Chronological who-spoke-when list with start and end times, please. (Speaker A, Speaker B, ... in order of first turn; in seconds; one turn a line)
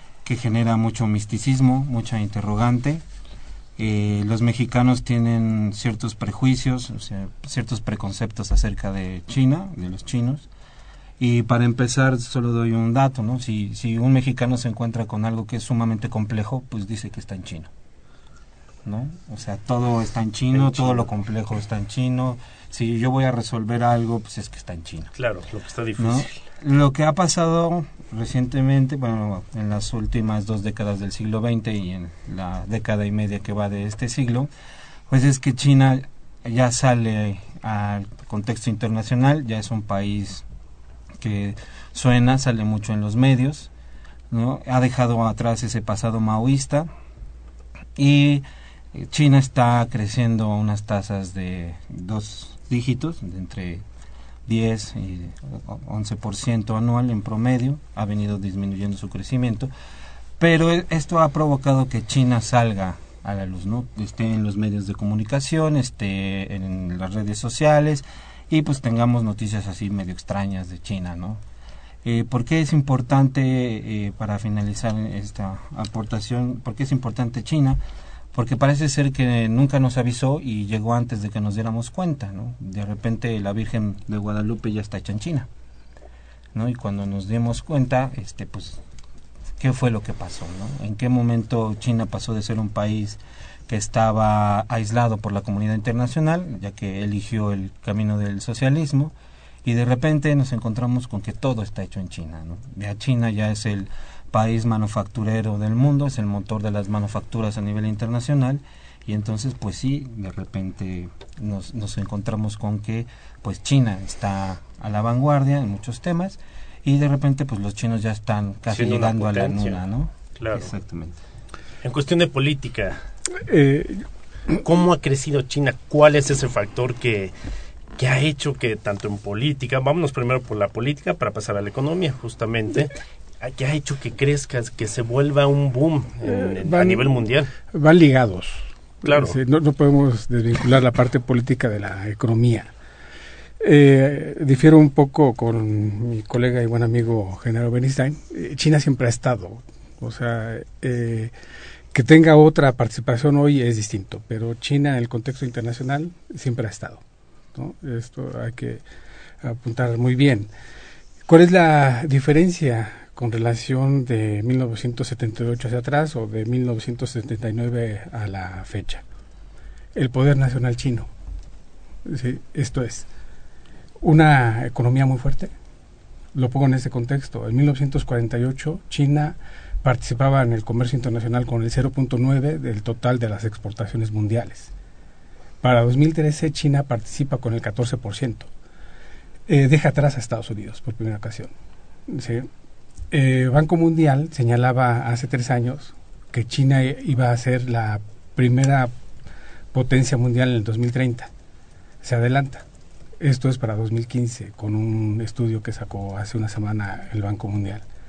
Speaker A: 0.2-3.0
Speaker A: 3.8-10.5
Speaker A: 11.2-17.7
Speaker A: 18.9-25.1
Speaker B: 20.5-21.1
Speaker B: 25.2-26.3
Speaker A: 26.0-34.5
Speaker A: 35.1-40.5
Speaker A: 41.2-43.7
Speaker A: 44.3-46.9
Speaker A: 48.0-53.9
Speaker A: 54.5-59.7
Speaker A: 60.4-71.4
Speaker A: 72.0-77.8
Speaker A: 78.3-85.5
Speaker A: 86.5-88.8
Speaker A: 89.6-121.2
Speaker B: 118.7-119.8
Speaker B: 120.4-120.7
Speaker B: 121.8-123.0
Speaker C: 123.4-124.0
Speaker B: 124.6-127.3
Speaker B: 128.0-137.5
Speaker C: 136.2-142.7
Speaker B: 139.0-139.4
Speaker C: 143.6-151.3
Speaker C: 151.9-157.0
Speaker C: 157.5-158.8
Speaker C: 159.4-160.5
Speaker C: 161.3-169.0
Speaker C: 169.9-171.1
Speaker C: 172.1-173.1
Speaker C: 174.0-175.5
Speaker C: 176.3-184.7
Speaker C: 185.6-188.5
Speaker C: 189.5-191.5
Speaker C: 192.1-192.5
Speaker C: 193.1-198.9
Speaker C: 199.7-201.3
Speaker C: 202.0-202.7
Speaker C: 203.2-207.8